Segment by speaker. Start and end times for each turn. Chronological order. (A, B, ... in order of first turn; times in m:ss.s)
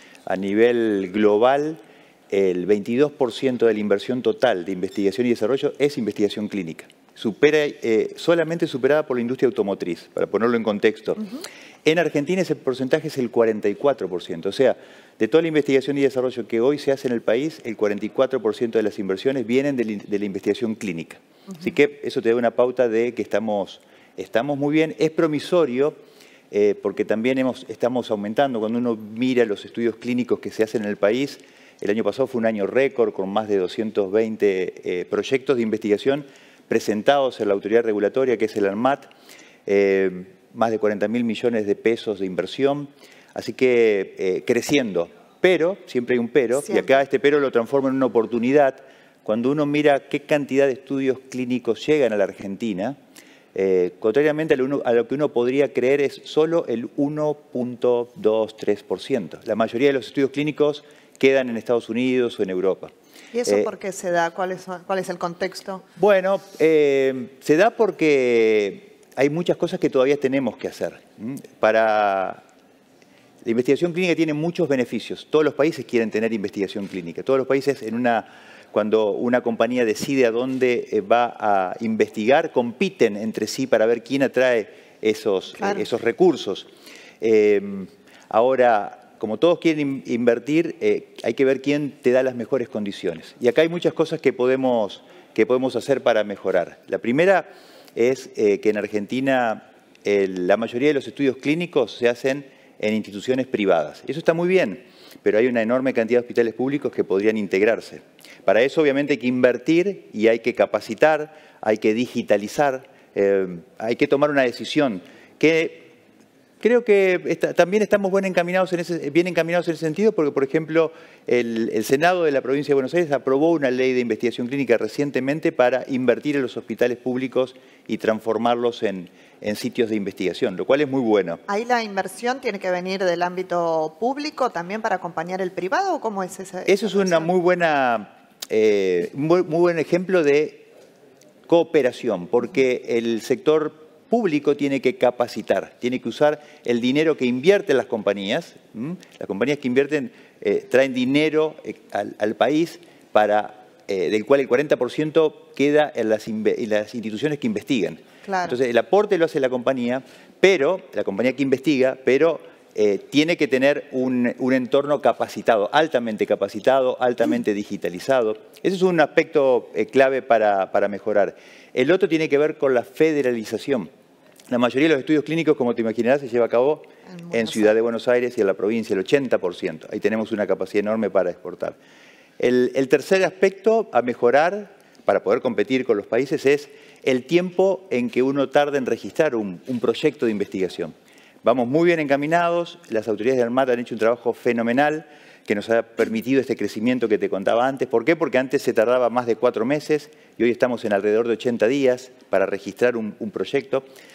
0:00.2-0:11.3 A
0:11.8-0:26.0 A
0:26.5-0:39.1 A
0:39.6-0:53.0 A
0:46.5-0:47.0 B
0:53.5-1:02.9 A
1:03.3-1:05.8 B
1:06.0-1:12.4 A
1:13.4-1:26.7 A
1:25.6-1:25.9 B
1:27.2-1:55.9 A
1:56.6-2:11.4 A
2:11.5-2:17.3 B
2:16.7-2:20.7 A
2:21.5-2:53.9 A
2:38.2-2:38.6 B
2:54.5-3:01.8 A
2:57.1-2:57.8 B
3:02.4-3:23.8 A